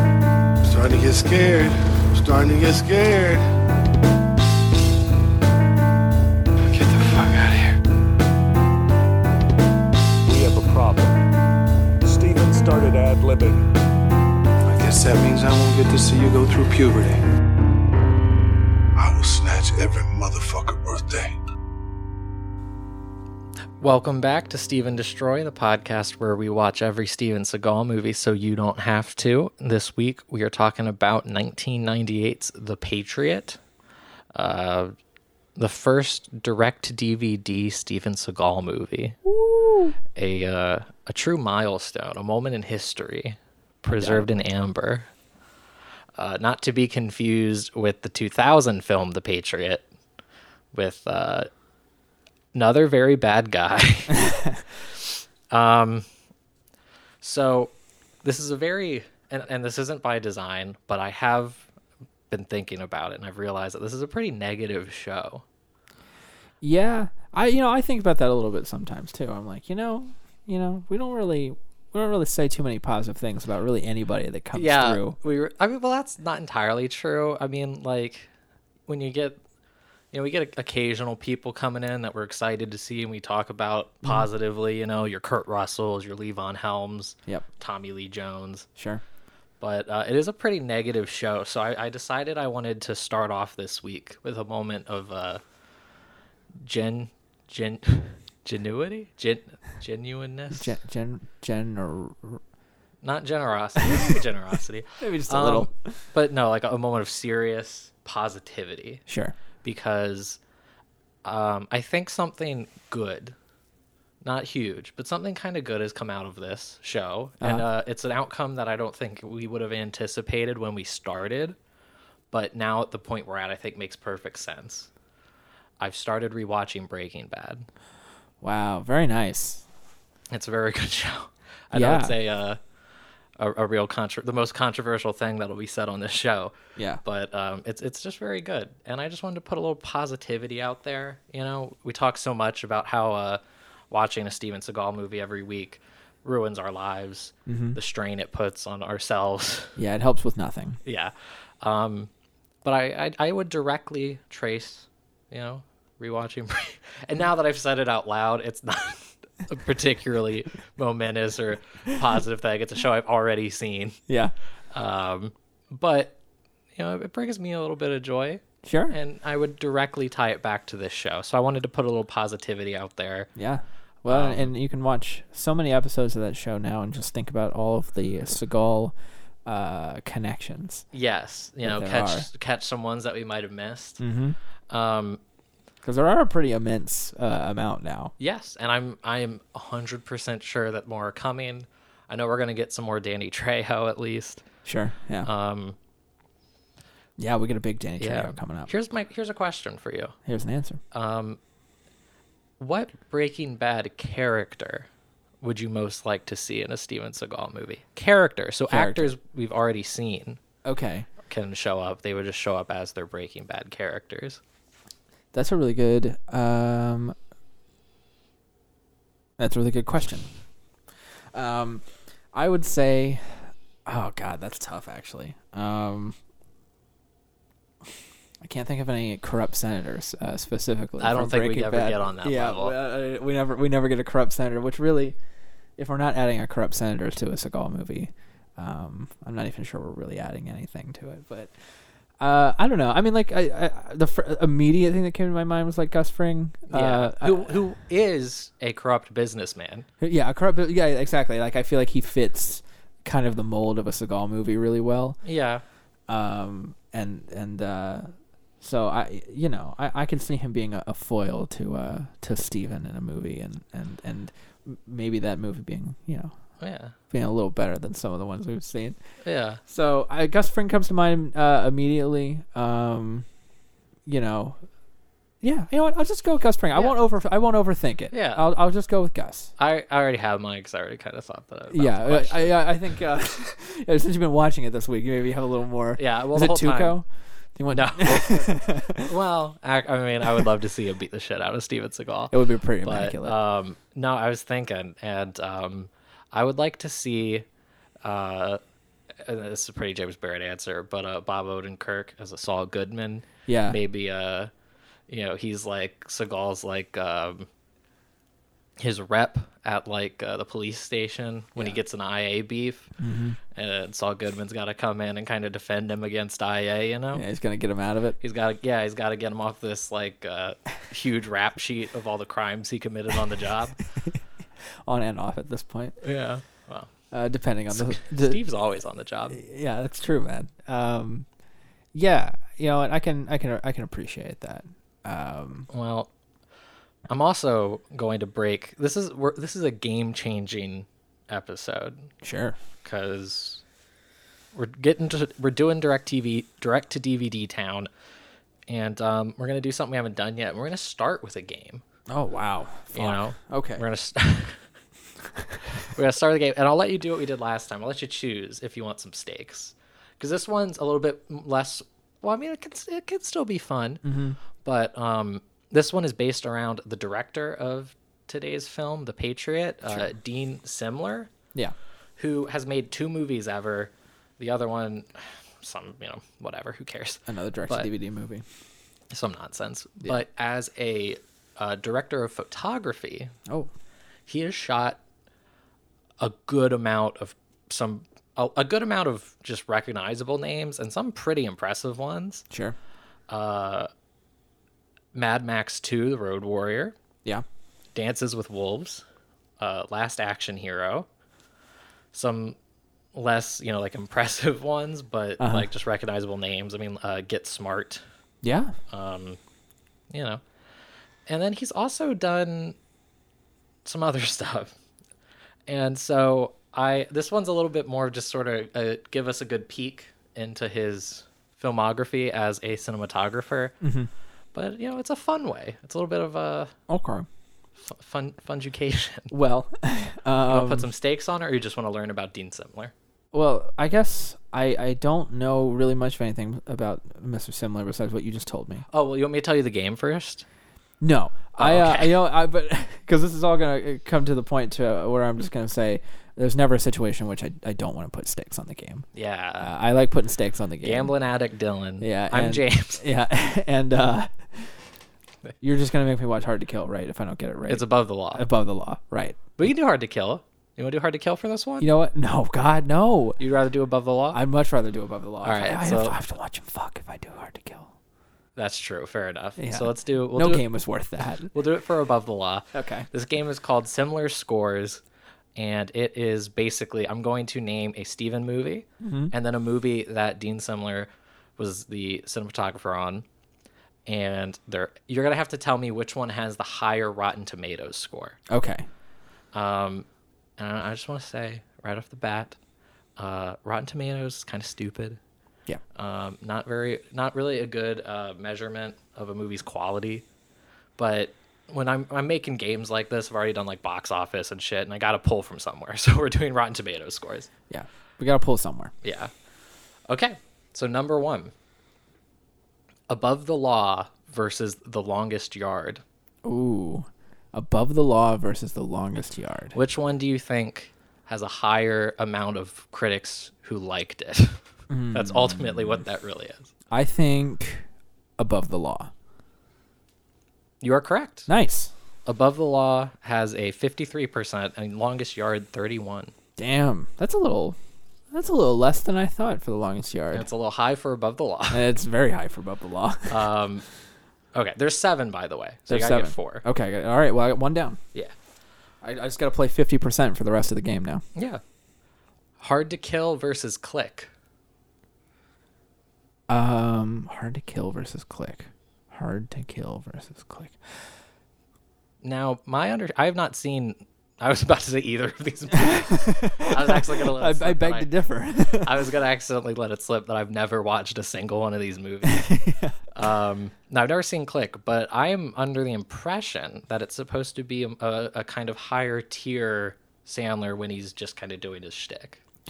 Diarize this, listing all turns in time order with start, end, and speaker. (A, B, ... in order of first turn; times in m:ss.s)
0:00.6-0:03.4 A
0:06.7-0:07.8 A
0:10.3-0:11.2 B
0:12.0-0:13.6 B
0:14.7-0:17.2 A
0:19.0-0:21.4 A
0:23.8-0:33.6 C
0:34.3-0:35.0 C
0:35.6-0:39.2 C
0:39.3-0:39.9 D
0:40.2-0:45.1 C
0:43.9-0:44.3 D
0:46.2-0:49.8 C
0:50.7-0:51.5 C
0:52.5-0:54.3 C
0:55.5-0:56.1 C
0:57.2-0:57.7 C
0:58.2-1:01.7 C
1:02.3-1:05.4 C
1:06.6-1:15.2 D
1:14.5-1:18.3 C
1:18.9-1:19.4 C
1:20.1-1:28.7 C
1:28.8-1:29.0 D
1:29.6-1:35.4 C
1:36.6-1:40.7 C
1:40.5-1:42.4 D
1:43.0-1:49.0 C
1:43.8-1:44.2 D
1:45.0-1:45.9 D
1:49.1-1:49.4 D
1:49.6-1:50.4 C
1:51.2-1:53.4 C
1:54.2-2:01.6 C
2:02.3-2:04.9 C
2:05.8-2:07.7 C
2:08.4-2:09.6 D
2:10.3-2:12.6 C
2:11.7-2:12.2 D
2:13.4-2:29.8 C
2:16.8-2:17.0 D
2:27.5-2:27.8 D
2:29.8-2:30.8 D
2:30.8-2:32.1 C
2:32.6-2:44.0 C
2:44.1-2:44.3 D
2:44.7-2:46.2 C
2:46.8-2:53.3 C
2:48.6-2:49.0 D
2:53.4-2:58.9 D
2:54.1-2:54.5 C
2:59.4-3:00.8 D
3:00.9-3:04.0 C
3:01.6-3:02.3 D
3:04.0-3:04.4 D
3:04.7-3:05.2 C
3:05.8-3:08.1 D
3:08.2-3:14.4 C
3:14.6-3:15.3 D
3:15.2-3:15.8 C
3:17.2-3:18.7 D
3:18.0-3:20.2 C
3:20.2-3:20.8 D
3:20.9-3:21.4 C
3:22.6-3:24.9 C
3:25.4-3:30.4 C
3:28.7-3:29.1 D
3:30.6-3:31.1 D
3:31.3-3:34.4 C
3:35.3-3:37.2 D
3:39.4-3:40.3 D
3:41.3-3:46.2 D
3:48.4-3:55.2 D
3:51.0-3:52.7 C
3:55.8-4:01.5 D
4:02.2-4:07.6 D
4:06.7-4:09.9 C
4:10.0-4:15.2 D
4:15.2-4:15.6 C
4:16.1-4:26.3 D
4:26.6-4:27.0 C
4:27.1-4:29.0 D
4:29.2-4:29.6 C
4:29.7-4:33.3 D
4:34.1-4:34.6 D
4:35.4-4:39.5 D
4:38.1-4:38.5 C
4:39.6-4:42.6 C
4:41.7-4:49.1 D
4:46.0-4:47.0 C
4:47.7-4:57.4 C
4:52.3-4:53.4 D
4:58.0-4:58.6 C
4:59.2-5:04.5 C
5:03.5-5:03.8 D
5:05.1-5:07.5 C
5:08.8-5:12.9 C
5:13.0-5:13.4 D
5:13.6-5:17.2 C
5:17.1-5:18.2 D
5:18.2-5:23.8 C
5:24.8-5:26.0 D
5:26.0-5:26.9 C
5:27.1-5:28.4 D
5:27.7-5:29.4 C
5:29.3-5:31.3 D
5:31.9-5:35.7 D
5:35.7-5:36.1 C
5:37.1-5:42.1 C
5:42.2-5:42.6 D
5:42.8-5:43.6 C
5:44.5-5:47.9 C
5:48.7-5:51.8 C
5:52.1-5:53.8 D
5:52.9-5:54.6 C
5:55.9-6:04.0 C
6:04.0-6:04.4 D
6:04.6-6:11.3 C
6:12.2-6:15.1 C
6:15.6-6:17.9 C
6:17.3-6:18.4 D
6:19.1-6:23.3 C
6:24.3-6:25.0 C
6:26.2-6:32.4 C
6:33.3-6:33.9 C
6:35.1-6:37.0 C
6:37.9-6:39.0 C
6:39.6-6:41.1 C
6:42.1-6:42.6 C
6:43.1-6:48.0 C
6:45.4-6:45.7 D
6:48.4-6:48.7 D
6:48.9-6:49.4 C
6:50.1-6:50.4 C
6:51.3-6:52.8 C
6:53.8-6:54.8 C
6:55.7-7:03.8 C
7:03.8-7:04.1 D
7:04.5-7:06.7 C
7:06.9-7:07.3 D
7:07.8-7:09.3 C
7:09.3-7:10.9 D
7:10.5-7:12.9 C
7:13.3-7:18.8 D
7:18.9-7:20.4 C
7:21.0-7:29.1 D
7:21.6-7:22.2 C
7:29.1-7:29.7 C
7:29.6-7:31.1 D
7:30.8-7:33.0 C
7:32.0-7:34.7 D
7:35.6-7:39.5 D
7:37.7-7:38.5 C
7:39.6-7:41.9 C
7:41.8-7:43.4 D
7:43.4-7:44.4 C
7:44.3-7:47.9 D
7:45.4-7:46.2 C
7:48.6-7:50.7 C
7:49.6-7:51.5 D
7:51.5-7:55.0 C
7:52.7-7:53.1 D
7:55.6-8:03.2 C
7:59.0-7:59.3 D
8:04.1-8:08.4 C
8:08.5-8:08.9 D
8:09.5-8:10.1 C
8:10.6-8:12.6 C
8:13.2-8:15.2 C
8:16.0-8:20.3 C
8:21.0-8:27.5 C
8:27.7-8:28.9 D
8:29.0-8:29.3 C
8:30.1-8:31.5 C
8:33.1-8:36.0 C
8:36.4-8:39.8 D
8:39.7-8:46.7 C
8:44.9-8:46.0 D
8:46.9-8:47.8 D
8:48.4-8:49.1 D
8:50.8-8:51.5 C
8:51.5-8:51.9 D
8:52.3-8:56.3 C
8:56.6-8:57.8 D
8:58.3-9:00.5 D
9:00.3-9:01.9 C
9:01.7-9:03.4 D
9:03.3-9:03.9 C
9:04.5-9:06.6 C
9:05.9-9:08.0 D
9:09.0-9:11.2 D
9:11.4-9:11.6 C
9:12.6-9:14.3 C
9:16.5-9:20.8 D
9:22.2-9:28.1 C
9:25.7-9:29.0 D
9:28.7-9:32.6 C
9:32.2-9:33.0 D
9:33.1-9:42.4 C